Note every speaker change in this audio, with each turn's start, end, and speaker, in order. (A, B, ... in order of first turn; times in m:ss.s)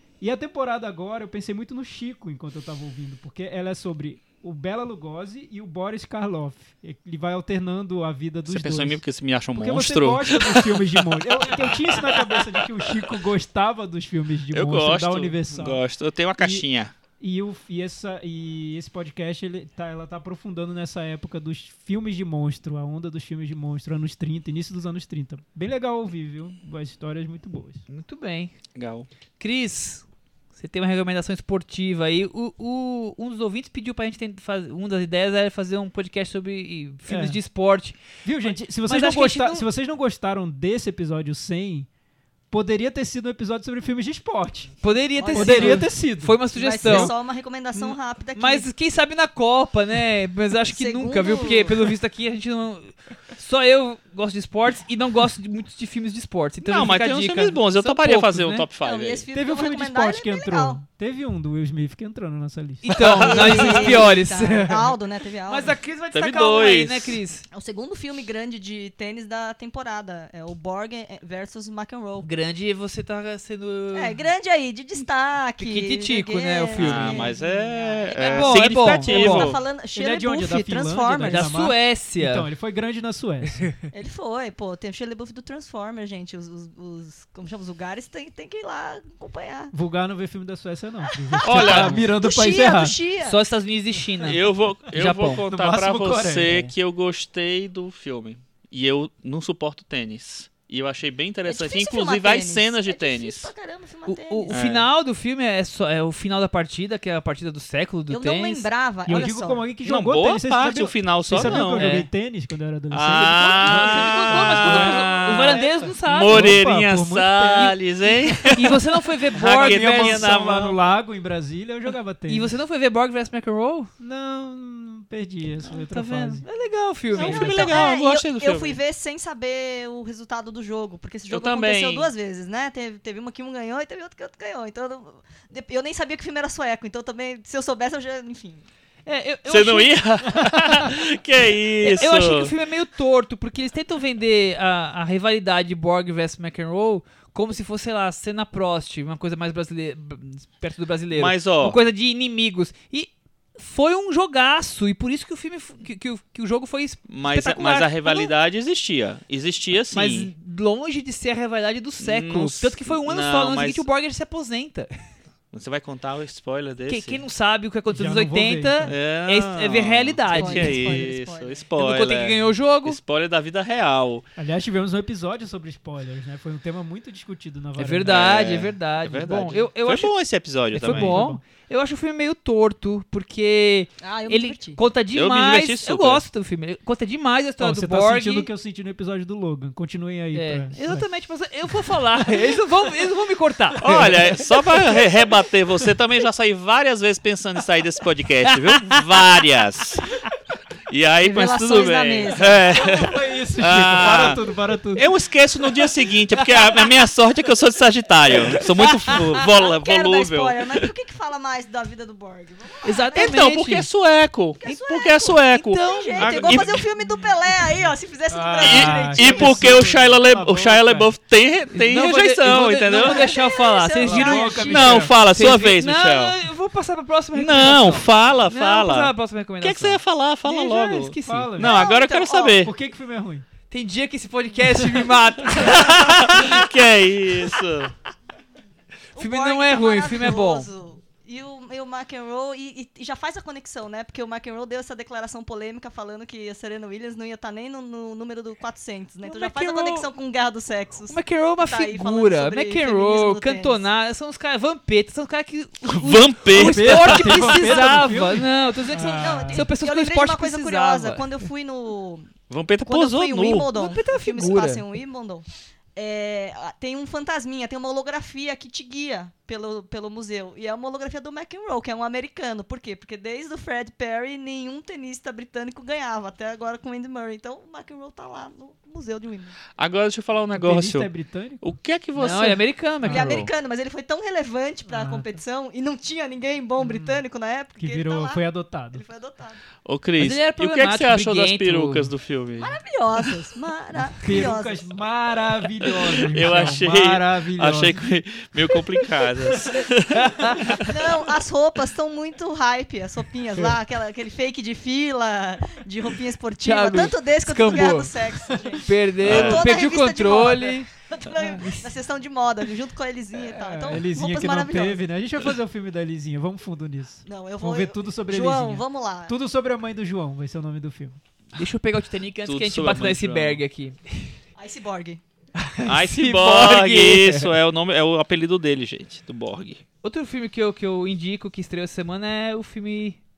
0:00.2-0:09.0 A
0:08.5-0:13.2 B
0:09.6-0:15.8 A
0:14.5-0:16.9 B
0:16.4-0:16.6 A
0:17.2-0:27.8 A
0:27.9-0:28.5 C
0:28.8-0:29.1 B
0:29.4-0:30.0 C
0:30.6-0:39.7 C
0:37.1-0:37.4 A
0:38.2-0:41.9 A
0:42.5-0:44.7 A
0:44.8-0:47.1 C
0:45.2-0:45.9 D
0:45.3-0:47.2 A
0:46.5-0:48.7 D
0:47.8-0:58.7 C
0:50.7-0:51.9 D
0:56.6-0:59.2 B
0:58.8-1:00.8 D
0:59.3-1:02.9 A
1:02.8-1:05.0 C
1:02.9-1:03.9 B
1:03.2-1:05.8 D
1:03.5-1:03.8 A
1:05.5-1:07.5 C
1:06.1-1:07.2 B
1:07.5-1:12.3 D
1:12.2-1:14.3 C
1:13.9-1:21.5 D
1:15.6-1:17.3 C
1:16.8-1:19.6 B
1:18.2-1:19.5 C
1:19.9-1:23.7 A
1:21.3-1:22.5 C
1:23.9-1:29.7 D
1:29.7-1:33.0 A
1:31.3-1:33.4 D
1:31.4-1:32.1 B
1:33.2-1:35.4 C
1:34.2-1:43.5 B
1:35.4-1:36.5 A
1:41.4-1:44.5 D
1:44.1-1:48.7 C
1:44.5-1:44.8 B
1:48.1-1:49.6 D
1:49.1-1:58.8 A
1:49.8-1:52.0 B
1:51.4-1:52.1 C
1:52.9-2:00.8 B
1:53.1-1:56.6 C
1:58.5-2:00.3 C
1:59.4-2:02.6 A
2:02.3-2:03.9 C
2:04.0-2:06.4 A
2:05.7-2:07.8 C
2:07.1-2:08.8 B
2:07.2-2:18.6 D
2:11.3-2:12.1 B
2:19.1-2:20.7 C
2:19.5-2:22.5 B
2:21.8-2:38.3 C
2:31.1-2:31.8 B
2:37.1-2:40.3 B
2:39.9-2:44.9 C
2:42.0-2:43.9 B
2:45.5-2:47.2 B
2:46.9-2:51.1 C
2:47.9-2:49.0 A
2:48.9-2:54.2 B
2:50.3-2:51.6 D
2:51.8-2:53.0 C
2:54.4-2:58.2 A
2:57.8-3:00.2 C
2:58.1-3:01.2 B
3:00.8-3:01.4 A
3:00.8-3:08.5 C
3:04.0-3:04.8 D
3:05.1-3:06.2 B
3:07.6-3:11.0 A
3:10.3-3:14.2 C
3:13.8-3:20.2 B
3:13.8-3:14.9 A
3:18.5-3:18.8 C
3:20.9-3:24.4 B
3:21.2-3:22.6 D
3:22.7-3:25.1 A
3:25.0-3:30.9 B
3:29.4-3:33.4 D
3:32.8-3:33.9 C
3:33.2-3:36.8 B
3:34.6-3:39.9 D
3:35.5-3:36.8 C
3:38.3-3:41.1 A
3:38.6-3:43.3 B
3:41.7-3:51.6 C
3:42.8-3:44.9 D
3:44.0-3:45.2 A
3:44.6-3:46.4 B
3:47.3-3:52.7 B
3:51.2-3:51.8 A
3:51.6-3:52.6 D
3:52.5-3:53.5 A
3:53.7-3:56.7 C
3:55.6-3:57.9 B
3:59.2-4:00.7 C
3:59.2-4:13.8 D
4:09.2-4:10.1 C
4:11.1-4:21.3 C
4:15.9-4:18.1 B
4:16.5-4:19.7 A
4:18.8-4:22.3 D
4:22.5-4:23.7 B
4:22.8-4:39.6 D
4:23.7-4:24.8 C
4:39.8-4:41.1 B
4:40.5-4:41.7 A
4:41.6-4:42.6 B
4:42.2-4:43.5 C
4:43.0-4:43.4 A
4:43.0-4:49.6 D
4:44.9-4:45.3 A
4:46.8-4:47.2 A
4:47.8-4:49.0 A
4:49.8-4:52.8 B
4:50.2-4:52.1 C
4:52.6-4:54.9 D
4:54.2-4:58.0 A
4:56.3-5:00.8 B
5:00.1-5:00.8 C
5:00.8-5:15.0 D
5:06.6-5:08.1 C
5:08.5-5:08.8 A
5:08.8-5:11.9 C
5:09.2-5:09.8 B
5:13.3-5:21.2 A
5:17.3-5:19.3 D
5:21.6-5:24.4 C
5:22.4-5:23.6 B
5:24.6-5:25.2 D
5:25.6-5:27.5 C
5:25.8-5:29.8 B
5:30.0-5:33.2 C